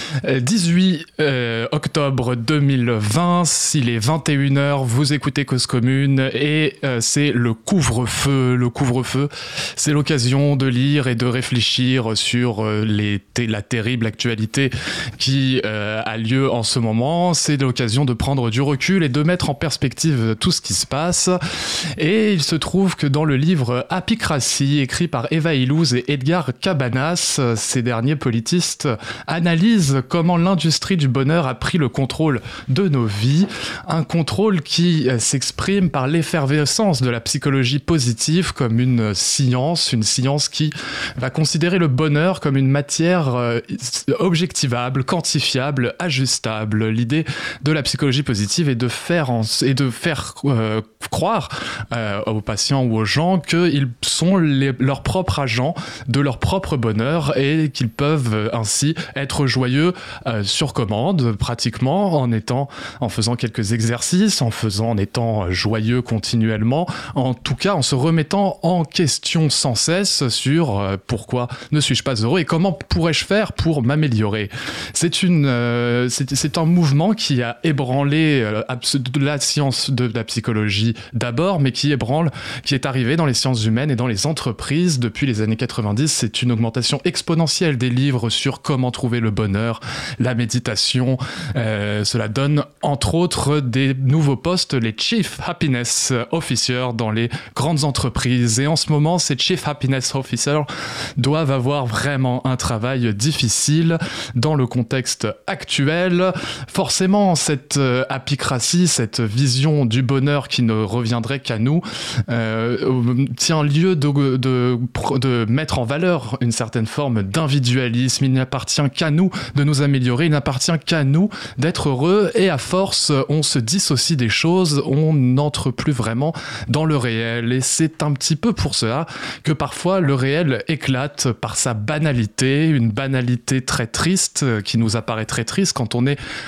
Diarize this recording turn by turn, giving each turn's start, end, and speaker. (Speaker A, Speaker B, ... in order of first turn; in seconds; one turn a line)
Speaker A: 0.2-136.2